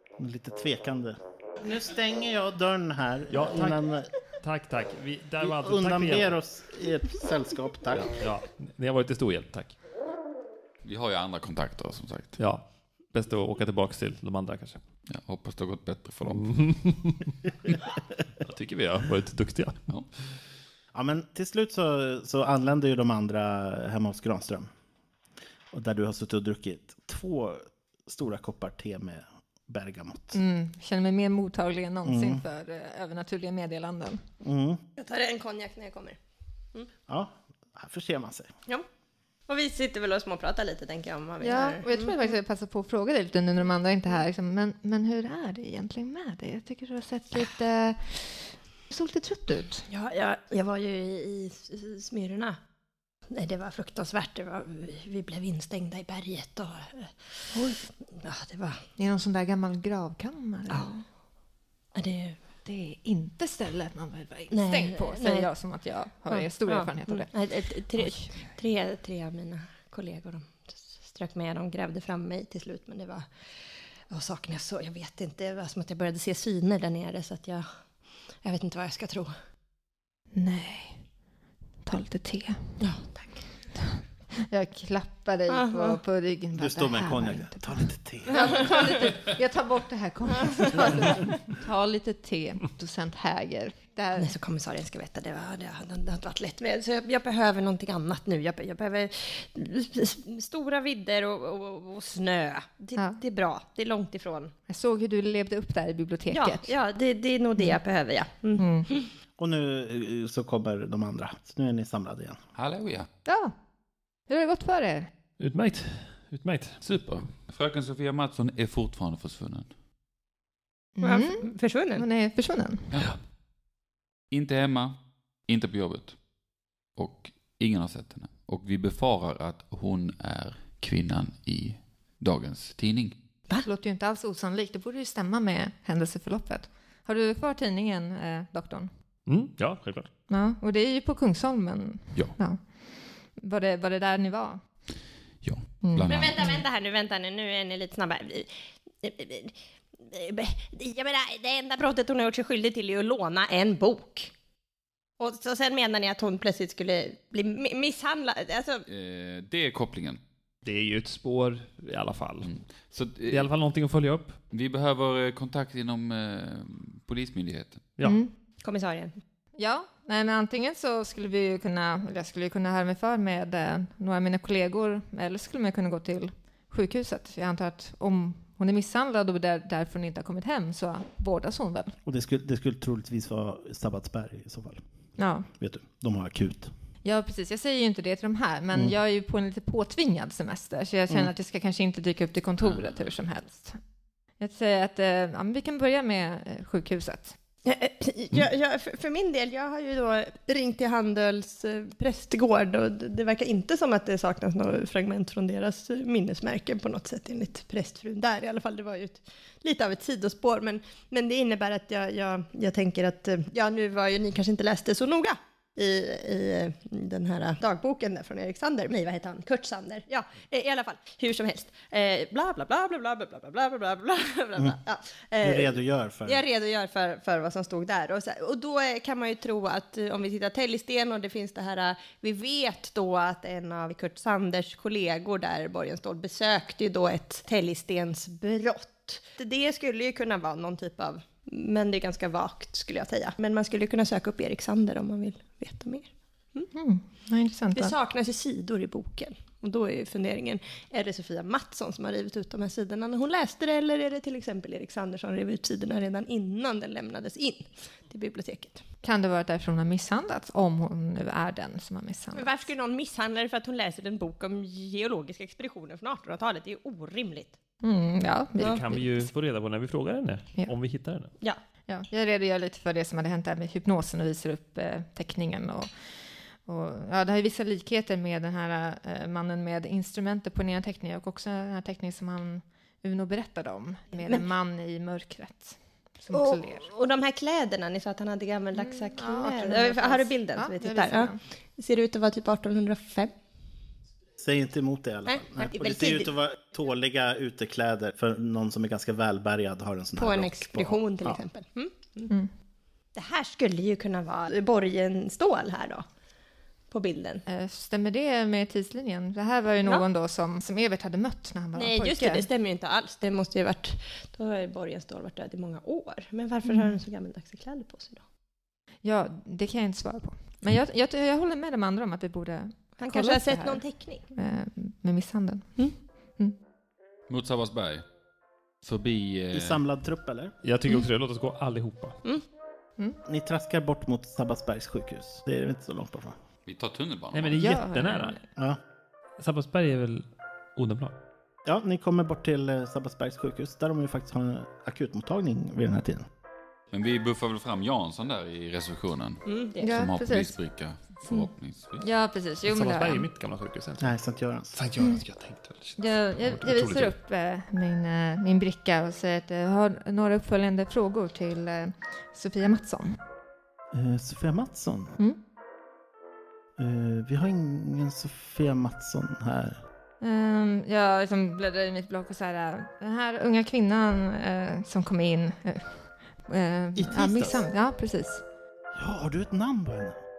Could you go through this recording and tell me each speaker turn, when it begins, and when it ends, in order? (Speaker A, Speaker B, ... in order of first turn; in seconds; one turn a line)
Speaker A: 0.2-4.1
Speaker B: 3.3-3.9
Speaker B: 4.4-6.4
Speaker A: 5.4-8.1
Speaker B: 7.9-9.8
Speaker C: 10.8-12.4
Speaker B: 12.4-14.8
Speaker C: 15.1-16.7
Speaker B: 16.2-17.3
Speaker B: 18.4-20.0
Speaker A: 20.9-24.7
Speaker A: 25.7-30.4
Speaker D: 30.3-34.2
Speaker A: 32.0-32.4
Speaker A: 34.4-34.8
Speaker E: 35.0-36.2
Speaker A: 37.1-38.5
Speaker E: 39.5-42.2
Speaker D: 41.4-49.9
Speaker E: 49.9-52.6
Speaker E: 53.3-58.8
Speaker D: 59.0-61.0
Speaker E: 61.9-62.4
Speaker D: 62.6-68.5
Speaker E: 64.5-65.5
Speaker E: 66.3-73.3
Speaker E: 74.1-77.7
Speaker E: 78.4-79.3
Speaker D: 80.3-81.0
Speaker D: 81.8-82.6
Speaker E: 82.8-83.5
Speaker D: 83.8-94.3
Speaker E: 85.5-86.0
Speaker A: 86.5-88.7
Speaker E: 88.3-89.2
Speaker E: 90.4-91.2
Speaker E: 94.2-104.5
Speaker D: 104.7-106.7
Speaker E: 106.3-109.1
Speaker D: 108.6-108.9
Speaker A: 109.4-112.4
Speaker C: 112.5-113.1
Speaker D: 113.2-113.6
Speaker D: 114.3-115.1
Speaker B: 115.4-117.2
Speaker C: 116.8-119.7
Speaker D: 121.0-122.9
Speaker E: 121.0-122.1
Speaker C: 124.3-126.2
Speaker C: 127.0-133.1
Speaker D: 133.6-138.9
Speaker B: 139.3-140.1
Speaker D: 140.3-144.6
Speaker C: 145.4-146.5
Speaker D: 145.8-146.6
Speaker E: 146.1-154.3
Speaker E: 155.2-158.9
Speaker C: 158.9-160.2
Speaker B: 160.6-162.5
Speaker C: 162.4-163.5
Speaker B: 163.3-164.4
Speaker C: 164.5-167.8
Speaker D: 168.0-168.3
Speaker E: 168.6-169.2
Speaker D: 169.6-181.9
Speaker A: 182.1-184.8
Speaker D: 185.2-185.5
Speaker A: 185.5-186.7
Speaker D: 187.0-193.8
Speaker C: 192.6-193.0
Speaker D: 194.4-197.4
Speaker E: 197.6-246.7
Speaker A: 225.4-226.4
Speaker D: 246.7-247.9
Speaker E: 247.8-258.8
Speaker D: 259.0-262.5
Speaker E: 262.3-267.6
Speaker D: 267.8-269.3
Speaker E: 268.6-268.8
Speaker B: 268.6-271.3
Speaker D: 271.9-276.0
Speaker D: 276.5-286.9
Speaker E: 284.2-284.5
Speaker E: 286.3-293.3
Speaker D: 288.8-291.4
Speaker A: 294.4-301.4
Speaker E: 295.3-296.3
Speaker E: 300.2-302.3
Speaker E: 303.1-306.1
Speaker E: 306.9-307.4
Speaker D: 307.5-312.5
Speaker E: 311.8-318.2
Speaker D: 316.6-316.9
Speaker D: 319.0-326.5
Speaker E: 323.0-324.2
Speaker C: 327.3-328.0
Speaker C: 328.8-329.8
Speaker A: 329.5-330.5
Speaker B: 330.6-332.2
Speaker A: 333.3-336.4
Speaker C: 336.6-337.7
Speaker B: 337.3-338.4
Speaker D: 337.6-338.4
Speaker B: 339.4-341.1
Speaker A: 341.6-346.2
Speaker C: 346.9-352.1
Speaker E: 349.5-349.8
Speaker D: 349.8-350.6
Speaker D: 352.0-353.3
Speaker B: 352.6-354.1
Speaker A: 354.0-354.8
Speaker B: 354.7-357.1
Speaker D: 356.0-363.2
Speaker A: 363.9-365.1
Speaker A: 366.8-369.8
Speaker D: 370.2-378.4
Speaker A: 377.0-377.6
Speaker A: 378.9-380.2